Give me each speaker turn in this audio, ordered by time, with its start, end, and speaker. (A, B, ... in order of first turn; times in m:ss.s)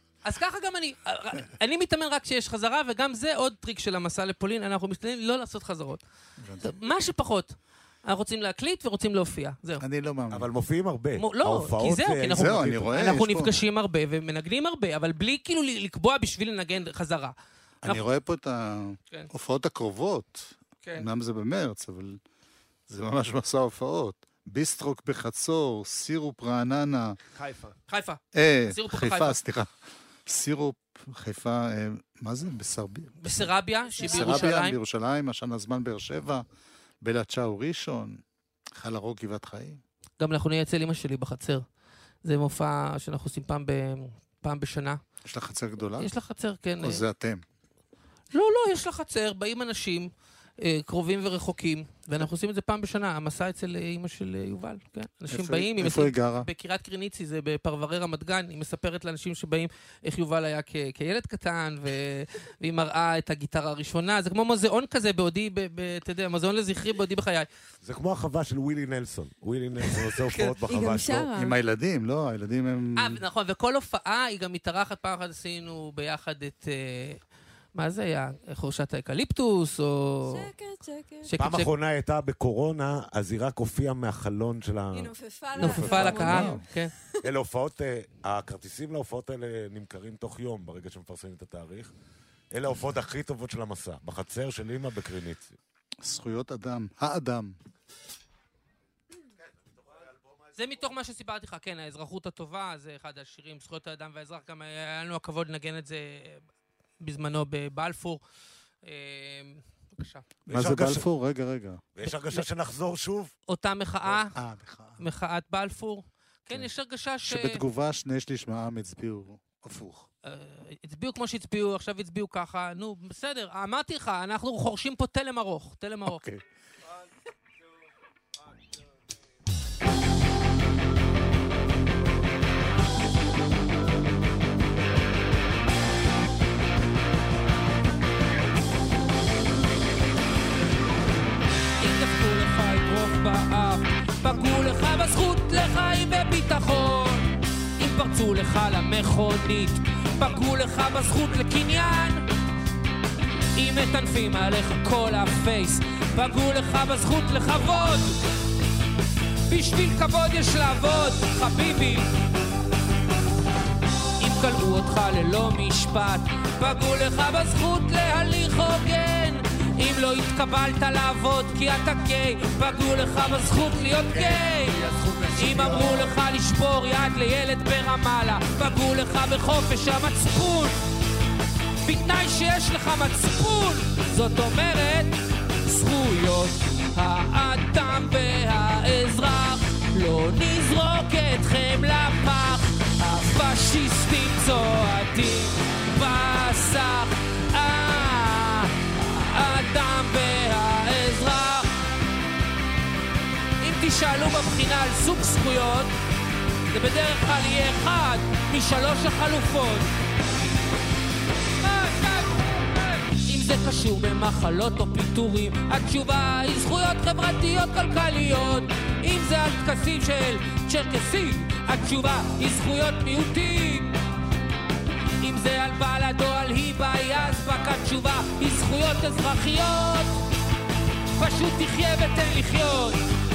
0:00.2-0:06.0 A
0:06.4-0:06.7 B
0:06.6-0:09.8 A
0:09.8-0:10.5 B
0:10.3-0:13.0 C
0:11.2-0:18.0 A
0:12.2-0:13.5 B
0:17.8-0:22.2 B
0:20.8-0:21.1 A
0:22.9-0:27.2 B
0:27.3-0:27.8 D
0:27.9-0:29.4 A
0:28.3-0:33.5 B
0:33.2-0:34.8 A
0:34.0-0:36.4 B
0:34.0-0:34.4 E
0:37.0-0:38.2 B
0:38.8-0:39.8 B
0:40.2-0:41.6 A
0:42.2-0:45.0 A
0:45.2-0:46.1 B
0:46.0-0:47.0 A
0:46.8-0:47.4 B
0:48.3-1:07.5 A
0:55.3-0:56.5 B
1:07.8-1:11.3 C
1:10.3-1:10.5 A
1:10.7-1:11.6 E
1:11.3-1:13.2 B
1:13.0-1:17.2 A
1:17.8-1:20.5 A
1:20.3-1:21.3 E
1:21.2-1:21.7 A
1:21.4-1:25.9 C
1:24.9-1:27.1 E
1:25.6-1:26.9 A
1:25.6-1:26.6 B
1:27.2-1:31.9 C
1:32.5-1:35.5 C
1:36.0-1:37.6 B
1:39.4-1:40.8 C
1:40.6-1:46.5 A
1:47.0-1:48.2 A
1:48.8-1:50.2 A
1:50.5-1:51.8 B
1:50.5-1:51.1 C
1:51.9-1:53.3 C
1:52.1-1:52.4 A
1:53.5-1:54.4 A
1:54.3-1:55.0 B
1:55.0-1:57.6 A
1:57.2-2:00.1 B
2:00.2-2:06.2 A
2:06.1-2:06.4 B
2:21.8-2:32.2 A
2:33.6-2:38.2 A
2:39.5-2:42.1 A
2:44.2-3:00.8 A
2:54.1-2:56.2 D
3:01.8-3:21.8 A
3:23.6-3:25.9 A
3:26.7-3:29.9 A
3:31.6-3:44.0 A
3:45.2-3:50.2 A
3:51.1-3:53.0 A